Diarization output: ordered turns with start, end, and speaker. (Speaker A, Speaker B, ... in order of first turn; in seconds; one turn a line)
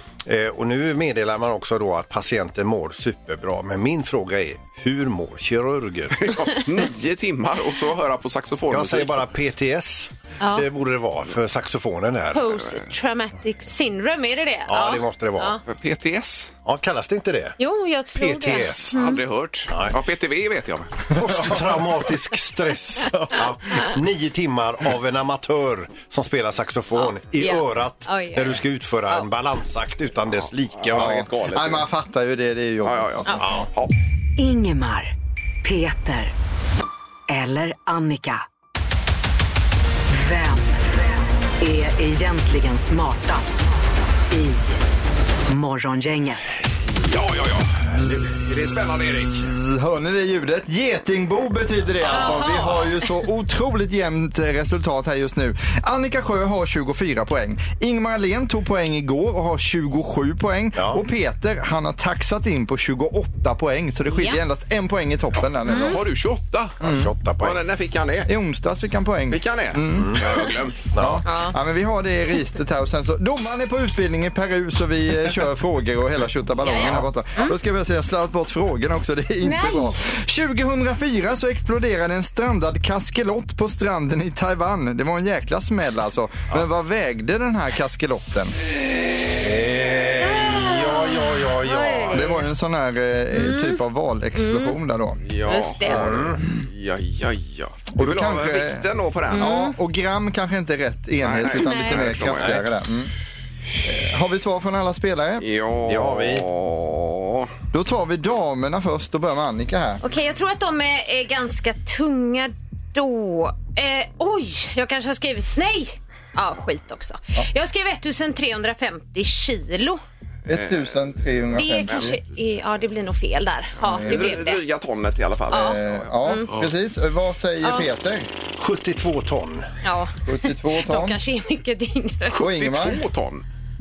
Speaker A: 0.3-6.3
Speaker B: 6.2-9.3
Speaker A: 8.7-12.4
Speaker C: 10.4-10.7
Speaker C: 12.3-15.6
Speaker A: 14.7-15.6
Speaker B: 15.7-16.5
Speaker A: 16.6-17.6
Speaker C: 17.6-19.2
Speaker A: 18.2-19.0
Speaker B: 18.9-21.1
Speaker A: 19.7-20.0
Speaker A: 21.1-31.1
Speaker C: 27.0-29.3
Speaker B: 30.8-31.9
Speaker D: 30.9-33.7
Speaker B: 32.9-33.9
Speaker A: 33.4-33.7
Speaker E: 34.4-36.3
Speaker E: 37.3-38.4
Speaker E: 40.1-44.8
Speaker E: 45.5-46.6
Speaker B: 47.0-49.5
Speaker D: 49.4-66.0
Speaker C: 52.1-53.0
Speaker A: 60.8-61.0
Speaker C: 64.1-64.4
Speaker C: 65.7-66.0
Speaker B: 65.7-66.8
Speaker D: 66.8-67.1
Speaker A: 66.8-67.6
Speaker B: 67.4-68.3
Speaker D: 68.3-70.3
Speaker B: 69.3-70.9
Speaker A: 70.0-71.2
Speaker D: 71.0-88.6
Speaker C: 71.2-71.5
Speaker C: 76.6-77.5
Speaker C: 79.4-80.0
Speaker A: 89.4-92.3
Speaker C: 90.2-92.5
Speaker D: 92.1-95.2
Speaker C: 93.3-93.8
Speaker C: 94.4-94.8
Speaker B: 95.2-99.7
Speaker C: 95.5-96.0
Speaker A: 95.9-96.4
Speaker D: 98.0-103.1
Speaker C: 99.3-99.8
Speaker B: 101.2-102.6
Speaker C: 101.6-102.0
Speaker A: 102.2-102.6
Speaker D: 103.8-105.4
Speaker B: 105.4-107.5
Speaker A: 105.9-106.5
Speaker D: 107.7-110.0
Speaker C: 110.0-120.0
Speaker D: 120.5-122.2
Speaker B: 120.5-121.1
Speaker C: 121.6-124.6
Speaker B: 121.9-122.2
Speaker D: 123.8-124.3
Speaker B: 123.8-126.7
Speaker C: 125.5-126.5
Speaker D: 125.5-128.3
Speaker C: 127.6-127.9
Speaker A: 128.6-129.7
Speaker C: 129.8-132.4
Speaker D: 130.3-131.2
Speaker B: 132.3-133.4
Speaker D: 132.4-133.0